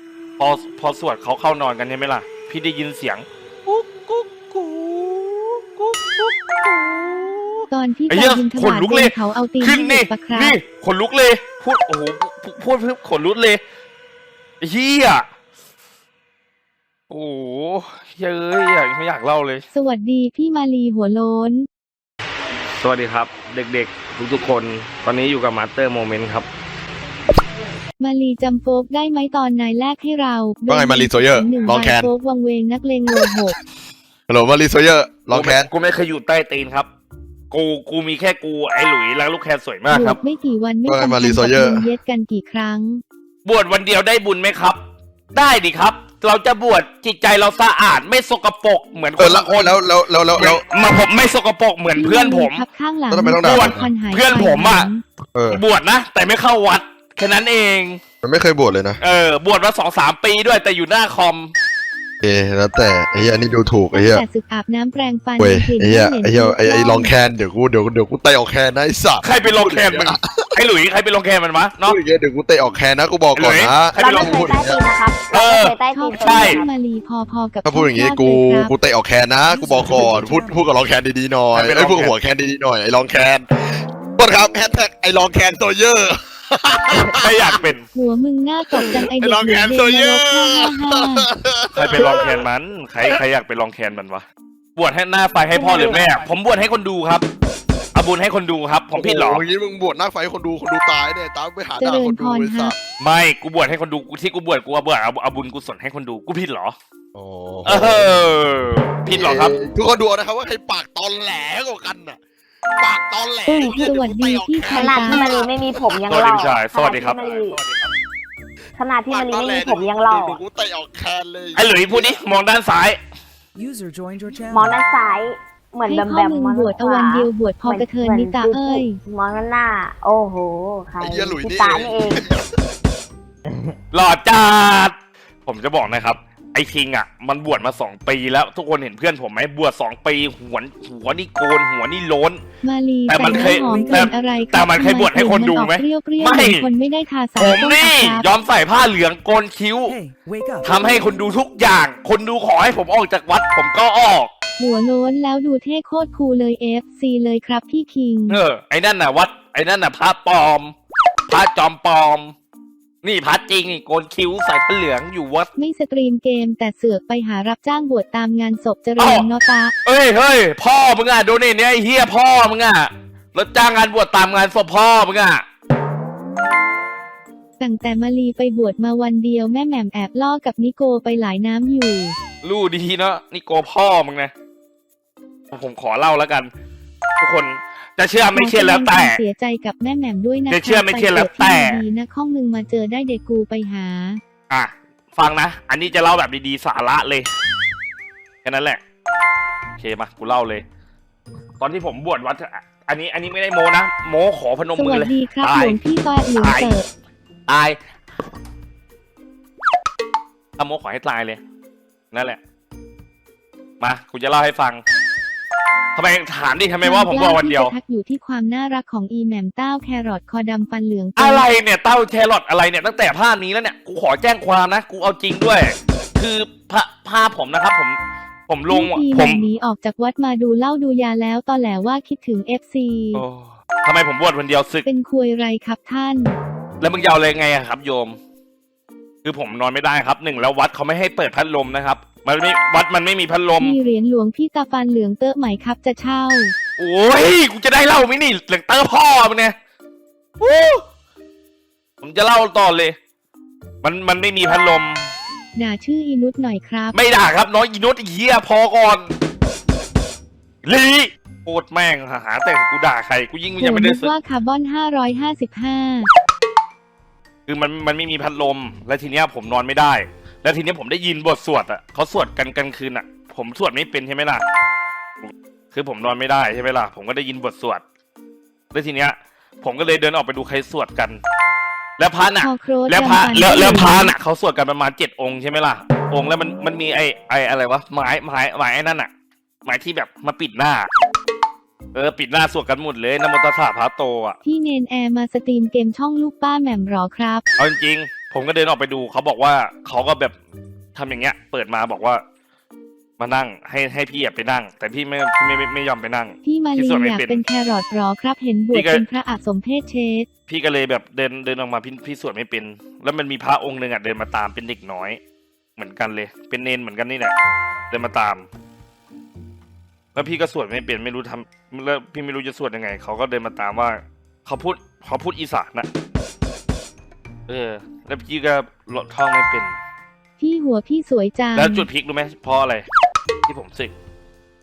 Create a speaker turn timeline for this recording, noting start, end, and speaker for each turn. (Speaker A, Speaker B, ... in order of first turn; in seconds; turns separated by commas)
Speaker A: 0.4-13.6, Speaker B: 7.7-10.6, Speaker A: 14.6-15.3, Speaker A: 17.1-19.6, Speaker B: 19.7-21.7, Speaker A: 22.8-26.5, Speaker B: 28.0-33.6, Speaker C: 30.7-32.1, Speaker C: 34.3-35.7, Speaker A: 35.3-36.9, Speaker A: 37.5-40.2, Speaker B: 39.9-43.0, Speaker C: 40.9-41.9, Speaker A: 43.4-44.8, Speaker A: 45.3-49.8, Speaker C: 49.2-50.6, Speaker A: 50.4-52.6, Speaker B: 51.9-55.0, Speaker C: 53.1-53.9, Speaker A: 53.4-54.9, Speaker C: 55.3-55.6, Speaker A: 55.5-58.0, Speaker C: 58.2-59.0, Speaker A: 59.0-61.5, Speaker C: 62.2-64.2, Speaker B: 64.0-67.1, Speaker C: 65.4-70.5, Speaker A: 69.2-72.0, Speaker C: 71.8-74.8, Speaker A: 73.3-74.6, Speaker D: 74.0-76.7, Speaker A: 75.3-76.6, Speaker B: 75.9-78.7, Speaker C: 77.6-87.6, Speaker E: 79.4-80.6, Speaker A: 81.5-82.1, Speaker A: 87.1-87.9, Speaker B: 87.9-91.3, Speaker C: 88.7-92.4, Speaker A: 91.7-97.2, Speaker B: 95.5-95.8, Speaker A: 97.9-99.4, Speaker C: 99.0-102.8, Speaker B: 101.8-102.7, Speaker A: 103.0-106.8, Speaker C: 107.1-108.2, Speaker A: 107.6-109.5, Speaker C: 109.1-112.2, Speaker C: 112.8-116.0, Speaker B: 113.5-115.3, Speaker D: 113.6-113.9, Speaker D: 114.7-117.6, Speaker A: 116.1-117.9, Speaker D: 118.8-120.4, Speaker C: 119.1-122.2, Speaker A: 121.5-123.0, Speaker E: 123.5-124.8, Speaker D: 124.5-132.2, Speaker B: 125.8-129.0, Speaker C: 131.0-132.4, Speaker A: 133.9-134.9, Speaker A: 135.4-142.4, Speaker B: 142.6-148.3, Speaker A: 143.1-146.7, Speaker E: 143.2-144.1, Speaker A: 147.4-149.9, Speaker E: 149.8-150.9, Speaker A: 150.6-154.3, Speaker B: 154.6-158.4, Speaker A: 158.3-160.7, Speaker A: 161.3-162.3, Speaker A: 163.0-165.5, Speaker B: 165.6-169.7, Speaker A: 169.0-169.3, Speaker A: 169.8-175.4, Speaker B: 177.6-182.2, Speaker A: 182.4-184.3, Speaker A: 185.5-186.5, Speaker A: 187.2-189.2, Speaker B: 188.3-194.2, Speaker A: 190.5-191.8, Speaker A: 194.5-197.3, Speaker A: 198.4-198.8, Speaker A: 199.8-200.6, Speaker A: 201.6-205.8, Speaker B: 204.7-206.9, Speaker A: 206.4-206.8, Speaker A: 207.5-207.8, Speaker A: 210.6-211.4, Speaker A: 212.1-212.4, Speaker A: 213.8-214.8, Speaker A: 215.9-217.7, Speaker B: 216.8-221.5, Speaker A: 221.2-229.4, Speaker B: 228.7-233.2, Speaker A: 233.1-234.8, Speaker B: 234.8-236.4, Speaker A: 236.8-238.2, Speaker A: 239.2-243.8, Speaker B: 243.6-246.5, Speaker A: 246.8-249.5, Speaker A: 250.4-250.8, Speaker A: 252.0-252.9, Speaker A: 253.8-255.1, Speaker B: 255.6-256.9, Speaker A: 256.9-259.1, Speaker A: 260.6-264.1, Speaker B: 263.6-266.1, Speaker A: 267.5-274.4, Speaker A: 275.2-277.8, Speaker A: 278.7-281.2, Speaker A: 282.0-289.1, Speaker B: 282.4-284.1, Speaker A: 289.6-290.9, Speaker A: 291.9-294.4, Speaker B: 294.4-297.4, Speaker A: 297.6-300.3, Speaker A: 300.9-302.2, Speaker A: 303.2-307.4, Speaker B: 306.4-310.3, Speaker A: 308.7-309.0, Speaker A: 310.5-315.2, Speaker A: 315.8-317.3, Speaker A: 317.9-318.5, Speaker A: 320.1-325.9, Speaker A: 327.5-329.8, Speaker B: 330.4-331.9, Speaker A: 331.5-332.9, Speaker A: 333.5-333.9